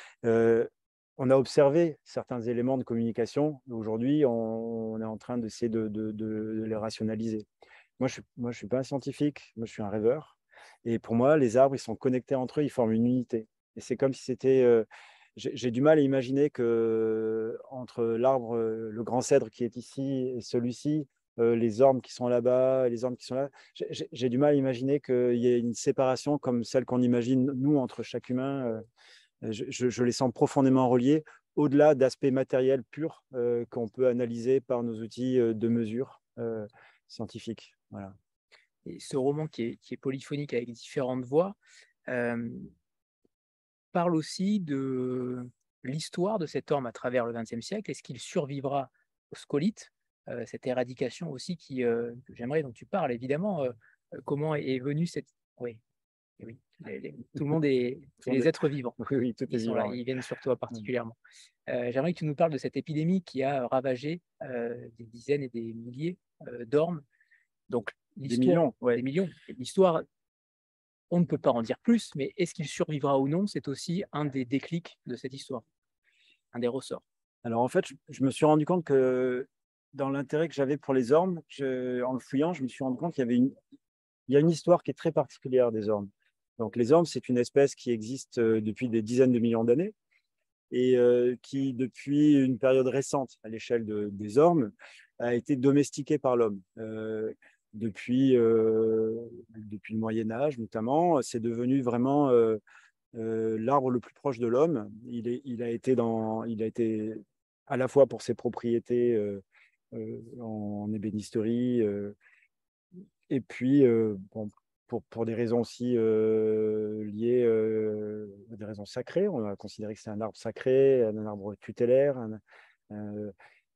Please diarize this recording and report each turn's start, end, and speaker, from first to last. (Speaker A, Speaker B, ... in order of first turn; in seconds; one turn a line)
Speaker A: 0.2-7.5
Speaker A: 8.0-28.8
Speaker A: 29.4-38.1
Speaker B: 38.9-42.7
Speaker B: 43.9-55.8
Speaker B: 56.4-61.2
Speaker A: 58.2-60.0
Speaker B: 61.7-67.0
Speaker B: 67.7-70.0
Speaker A: 68.2-69.0
Speaker B: 71.1-75.7
Speaker B: 76.5-77.0
Speaker A: 77.4-83.5
Speaker A: 84.3-89.9
Speaker A: 90.7-102.6
Speaker A: 103.2-112.2
Speaker A: 113.3-123.3